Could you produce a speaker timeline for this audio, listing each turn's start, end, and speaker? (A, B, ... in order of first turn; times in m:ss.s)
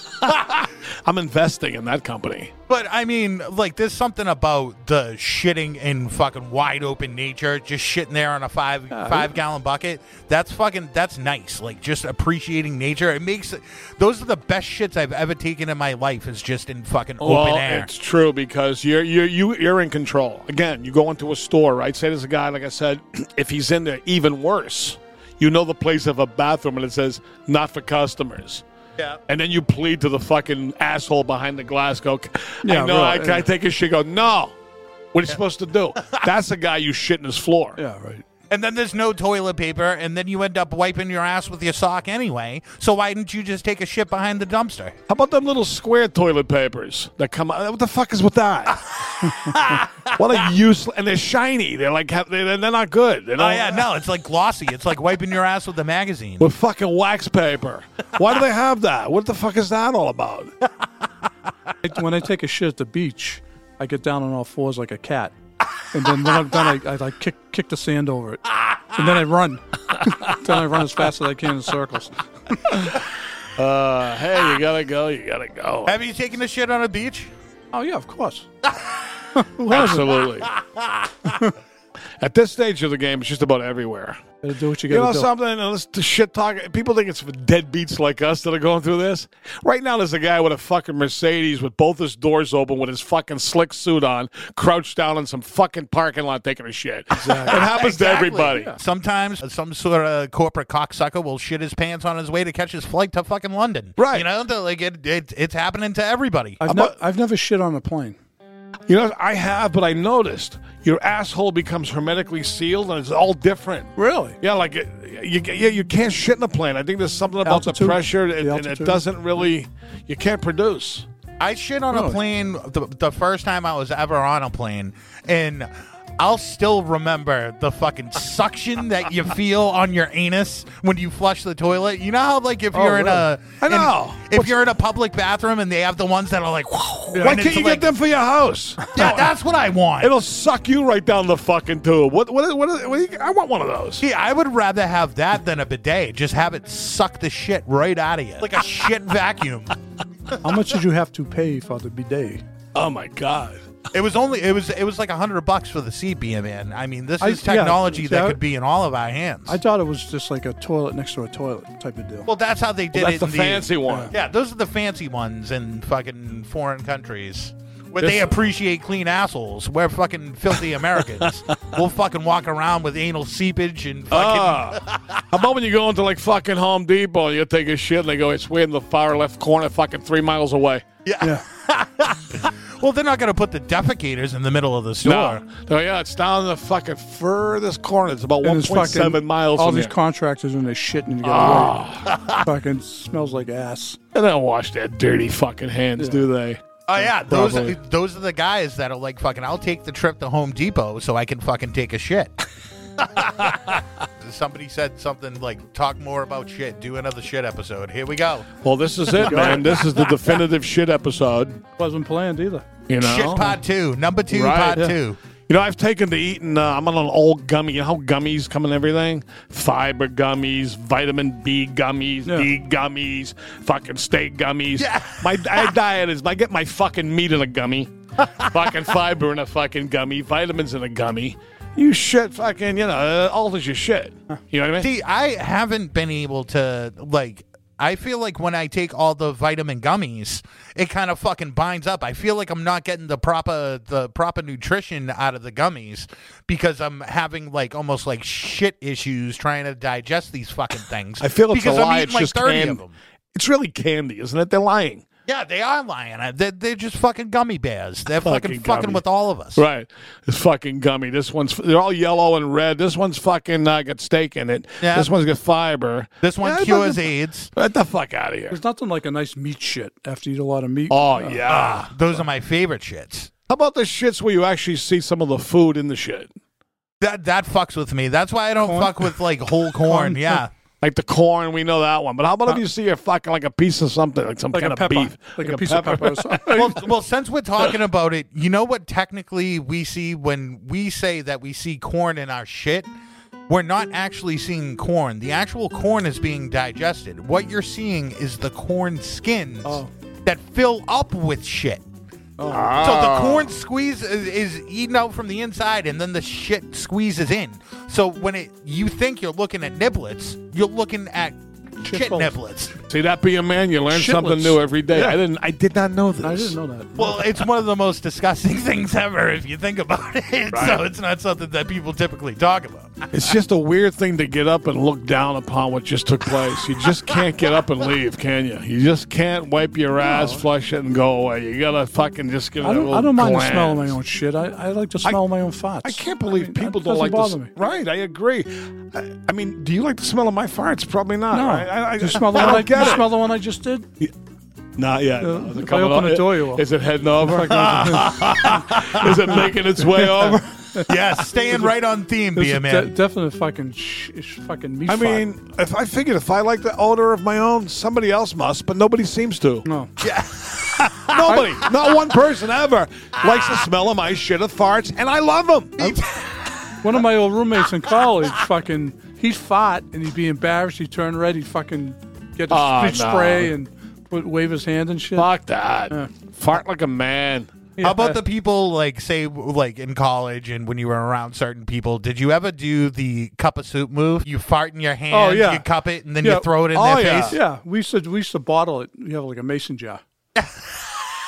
0:00.2-0:02.5 A
0:02.7-0:17.9 B
0:08.9-0:09.3 C
0:17.2-0:28.6 A
0:29.3-0:34.6 A
0:32.6-0:33.5 C
0:35.1-0:37.8 A
0:37.8-0:38.2 C
0:38.5-0:45.0 B
0:45.1-0:48.9 A
0:49.2-0:49.9 B
0:50.1-0:53.8 A
0:53.4-0:56.5 B
0:56.4-1:00.5 A
1:01.8-1:05.4 C
1:05.9-1:12.9 C
1:13.6-1:15.9 A
1:15.9-1:17.3 B
1:17.7-1:18.5 C
1:19.4-1:20.2 C
1:19.7-1:20.5 A
1:20.4-1:21.3 B
1:22.2-1:24.2 A
1:24.4-1:25.3 C
1:24.9-1:38.8 A
1:37.2-1:37.7 C
1:37.5-1:46.6 B
1:44.0-1:44.3 A
1:46.6-1:48.2 C
1:46.7-1:46.9 A
1:48.9-2:01.1 A
1:54.0-1:54.4 C
1:57.4-1:59.0 C
2:01.4-2:18.0 B
2:01.9-2:02.2 C
2:12.7-2:13.2 C
2:13.6-2:14.5 A
2:17.1-2:19.3 A
2:18.9-2:20.1 B
2:20.0-2:24.0 A
2:24.0-2:29.8 B
2:30.4-2:32.4 C
2:32.7-2:33.6 A
2:33.9-2:39.6 B
2:37.2-2:38.4 C
2:39.5-2:42.3 C
2:42.3-2:55.2 B
2:42.9-2:44.1 A
2:43.9-2:44.1 C
2:48.0-2:48.3 A
2:51.2-2:51.6 A
2:54.1-3:00.8 A
3:01.0-3:05.4 B
3:05.0-3:09.9 A
3:08.4-3:11.8 C
3:11.2-3:12.1 A
3:12.4-3:14.0 C
3:14.1-3:16.6 A
3:16.0-3:16.2 C
3:16.9-3:22.3 B
3:17.3-3:17.8 A
3:23.0-3:28.5 B
3:28.6-3:31.6 A
3:29.2-3:30.4 B
3:29.2-3:29.9 C
3:31.8-3:32.7 C
3:32.9-3:33.6 A
3:33.0-3:35.2 B
3:34.3-3:35.0 A
3:35.5-3:54.9 A
3:44.8-3:45.7 B
3:48.4-3:48.7 B
3:54.8-4:13.0 B
4:11.2-4:12.8 A
4:13.4-4:15.0 A
4:15.3-4:19.6 B
4:18.2-4:19.0 A
4:19.6-4:27.0 A
4:24.8-4:25.1 B
4:26.2-4:27.5 B
4:27.6-4:28.6 A
4:28.5-4:31.4 C
4:30.9-4:32.2 A
4:31.5-4:33.3 B
4:33.5-4:36.3 A
4:37.0-4:40.5 B
4:38.6-4:39.0 C
4:39.8-4:40.4 C
4:40.8-4:46.7 A
4:44.5-4:46.8 C
4:46.5-4:52.9 B
4:53.5-5:01.8 B
4:59.6-4:59.9 C
5:02.4-5:02.8 C
5:02.5-5:03.5 A
5:02.8-5:12.7 B
5:11.8-5:12.3 C
5:12.9-5:16.6 A
5:13.9-5:15.2 C
5:16.2-5:17.1 C
5:16.9-5:23.2 B
5:20.5-5:20.8 A
5:23.1-5:33.9 A
5:30.0-5:30.4 C
5:32.6-5:37.5 C
5:35.8-5:43.1 A
5:41.3-5:43.9 C
5:44.8-5:50.4 A
5:45.2-5:46.6 C
5:47.2-5:48.2 C
5:47.4-5:49.1 B
5:50.0-5:51.7 C
5:50.9-5:52.9 B
5:52.3-5:55.2 C
5:54.9-5:59.7 A
5:59.7-5:59.9 C
6:00.0-6:01.4 B
6:01.1-6:05.8 A
6:03.3-6:03.6 B
6:05.8-6:06.7 B
6:06.8-6:15.3 C
6:12.5-6:13.5 A
6:15.1-6:17.5 A
6:17.8-6:18.2 C
6:17.8-6:27.4 B
6:25.1-6:25.6 C
6:26.2-6:26.5 C
6:26.7-6:27.4 A
6:27.3-6:30.0 C
6:30.4-6:30.7 B